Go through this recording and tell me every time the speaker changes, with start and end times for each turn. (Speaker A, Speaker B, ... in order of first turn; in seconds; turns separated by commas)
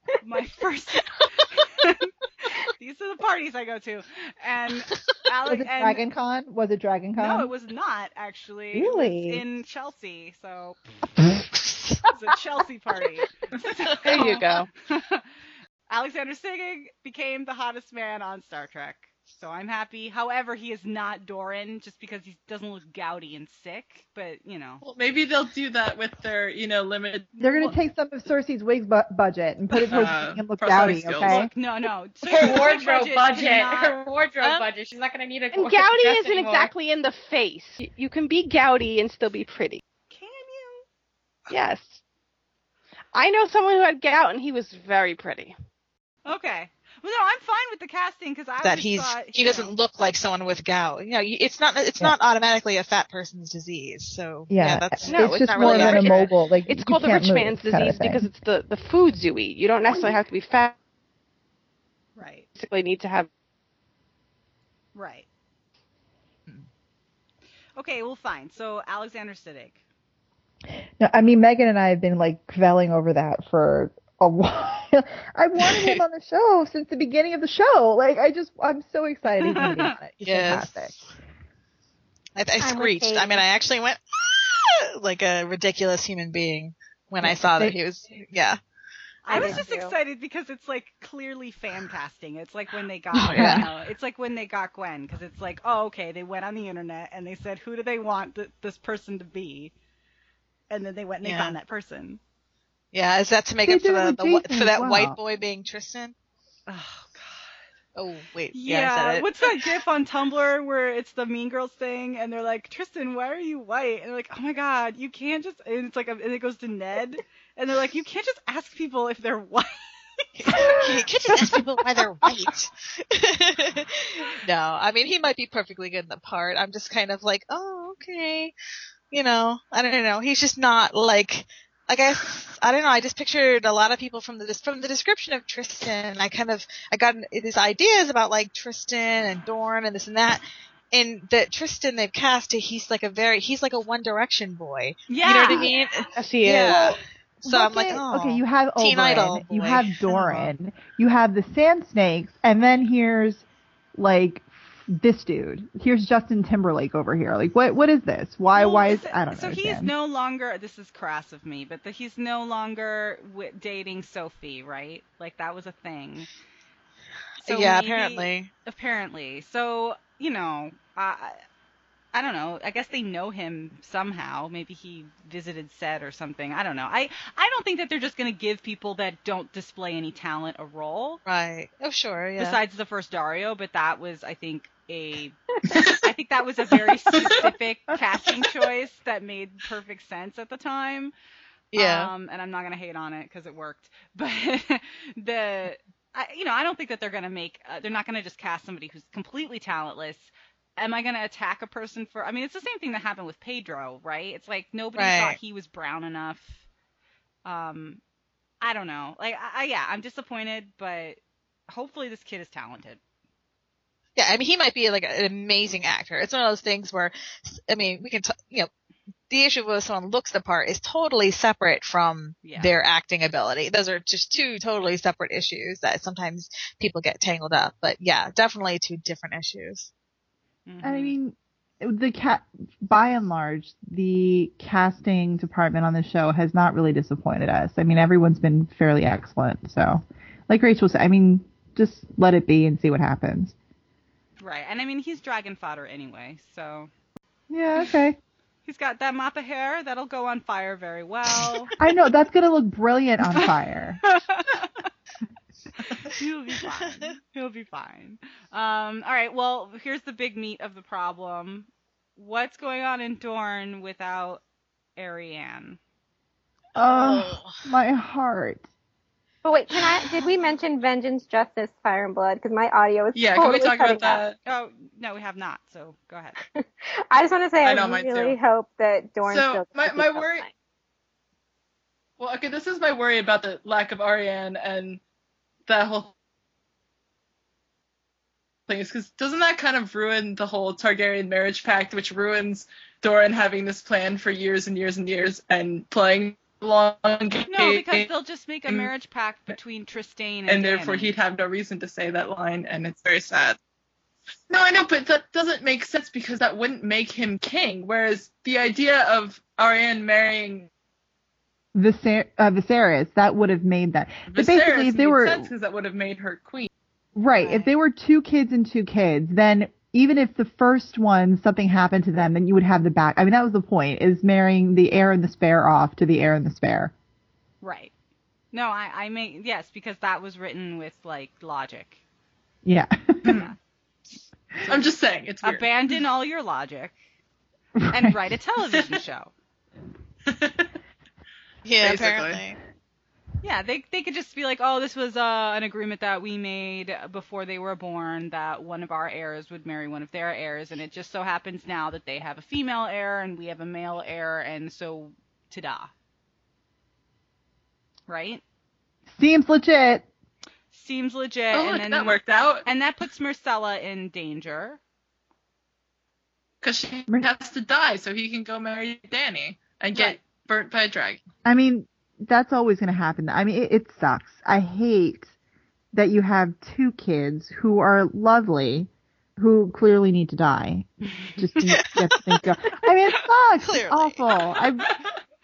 Speaker A: 0.2-6.0, Speaker B: 5.5-7.5, Speaker A: 7.2-10.8, Speaker B: 8.7-9.4, Speaker C: 11.6-12.0, Speaker A: 12.1-15.3, Speaker D: 14.1-14.7, Speaker A: 15.9-24.8, Speaker E: 24.8-27.7, Speaker B: 27.4-31.5, Speaker E: 29.8-31.5, Speaker A: 31.2-34.0, Speaker F: 32.2-36.7, Speaker D: 35.5-39.8, Speaker A: 40.1-40.9, Speaker D: 41.5-42.0, Speaker D: 43.1-45.5, Speaker A: 46.2-49.7, Speaker C: 48.6-56.2, Speaker B: 54.5-58.3, Speaker D: 55.0-60.8, Speaker A: 62.2-62.5, Speaker D: 62.5-63.3, Speaker A: 65.0-65.3, Speaker A: 67.8-69.8, Speaker B: 71.0-81.0, Speaker C: 75.6-76.0, Speaker A: 79.5-79.9, Speaker C: 80.2-81.1, Speaker C: 82.4-88.6, Speaker G: 82.6-83.4, Speaker B: 87.2-87.8, Speaker A: 89.2-99.7, Speaker G: 89.3-90.0, Speaker C: 93.2-93.7, Speaker B: 93.3-93.7, Speaker A: 100.7-102.2, Speaker C: 101.2-101.6, Speaker C: 102.9-106.2, Speaker B: 103.6-105.2, Speaker A: 106.7-107.6, Speaker C: 108.0-109.4, Speaker A: 108.5-120.9, Speaker C: 120.4-128.5, Speaker C: 129.1-150.5, Speaker A: 145.1-145.7, Speaker D: 145.3-147.0, Speaker B: 147.4-153.4, Speaker B: 153.9-159.9, Speaker A: 158.5-166.3, Speaker A: 167.4-171.4, Speaker C: 167.4-168.5, Speaker A: 172.1-181.2, Speaker C: 181.2-182.6, Speaker A: 182.4-185.4, Speaker E: 185.7-186.1, Speaker A: 186.0-191.1, Speaker E: 187.1-187.5, Speaker C: 191.7-192.1, Speaker A: 191.8-206.6, Speaker C: 204.9-205.4, Speaker A: 207.4-208.0, Speaker A: 208.6-213.0, Speaker C: 214.2-218.7, Speaker C: 219.3-229.9, Speaker A: 222.4-222.7, Speaker A: 230.7-231.2, Speaker B: 230.8-243.5, Speaker A: 244.4-246.9, Speaker B: 247.5-248.2, Speaker A: 248.7-251.7, Speaker B: 251.8-254.0, Speaker A: 254.0-254.9, Speaker A: 255.9-264.4, Speaker A: 265.0-265.8, Speaker B: 266.8-268.6, Speaker C: 266.8-267.6, Speaker G: 269.4-274.2, Speaker E: 273.1-274.4, Speaker A: 274.5-276.4, Speaker G: 276.6-280.5, Speaker E: 277.6-278.4, Speaker E: 279.2-280.5, Speaker E: 282.2-285.0, Speaker E: 285.7-286.1, Speaker E: 288.7-298.1, Speaker A: 297.5-301.1, Speaker E: 300.5-303.6, Speaker E: 304.5-310.7, Speaker B: 311.7-315.5, Speaker E: 314.3-316.7, Speaker B: 317.2-326.9, Speaker A: 317.4-317.7, Speaker A: 327.6-327.9, Speaker A: 328.5-332.0, Speaker B: 332.6-333.4, Speaker E: 333.2-333.5, Speaker A: 333.3-333.6, Speaker E: 334.6-335.7, Speaker A: 335.4-336.9, Speaker B: 337.8-338.2, Speaker A: 337.9-339.3, Speaker E: 340.3-340.7, Speaker C: 341.6-342.6, Speaker E: 341.8-342.4, Speaker A: 343.4-355.9, Speaker A: 358.1-358.4, Speaker B: 359.1-360.1, Speaker A: 360.7-364.8, Speaker E: 361.5-362.7, Speaker E: 366.6-371.2, Speaker A: 369.9-370.2, Speaker B: 371.4-375.3, Speaker B: 375.9-384.9, Speaker C: 381.6-382.2, Speaker C: 383.6-384.4